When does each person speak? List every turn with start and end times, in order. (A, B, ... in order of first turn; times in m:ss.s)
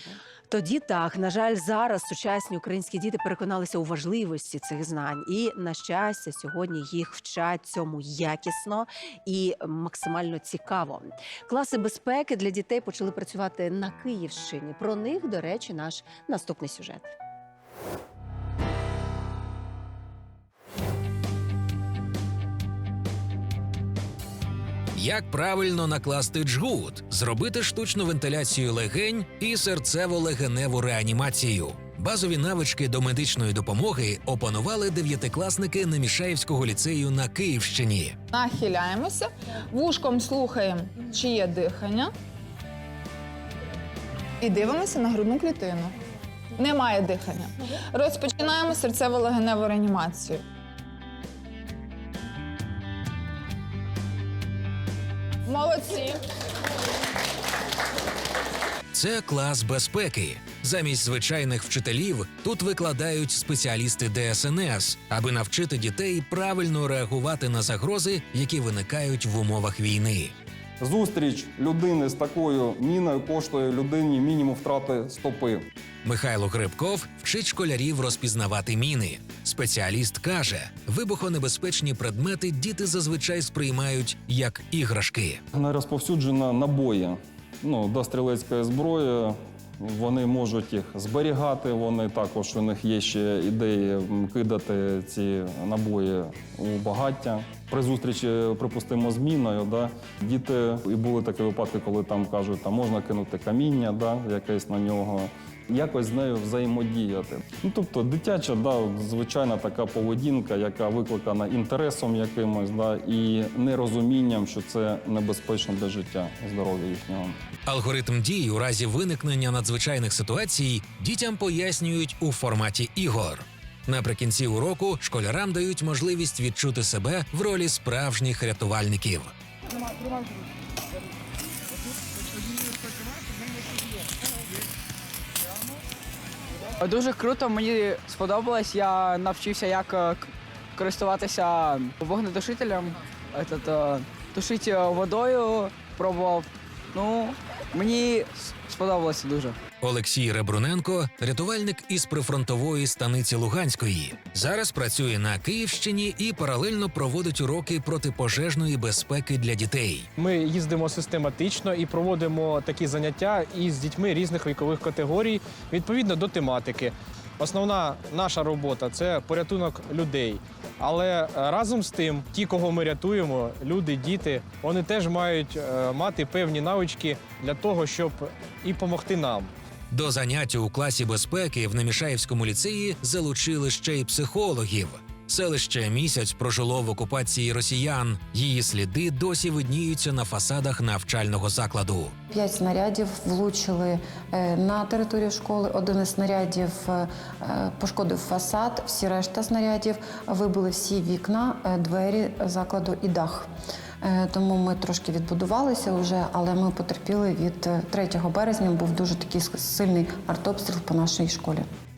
0:00.5-0:17.1 A
0:25.0-0:38.2 B
0:38.3-0:42.1 C
0:44.4-0:45.9 C
0:46.6-0:50.4 C
0:55.5-0:56.2 C
0:58.9-1:10.4 B
1:10.8-1:15.7 D
1:16.0-1:25.4 B
1:25.6-1:57.4 D
1:57.7-2:09.3 B
2:16.8-2:29.6 E
2:29.8-2:40.1 B
2:40.2-2:59.5 F
2:59.9-3:12.1 B
3:12.3-3:23.5 G
3:24.0-3:31.6 G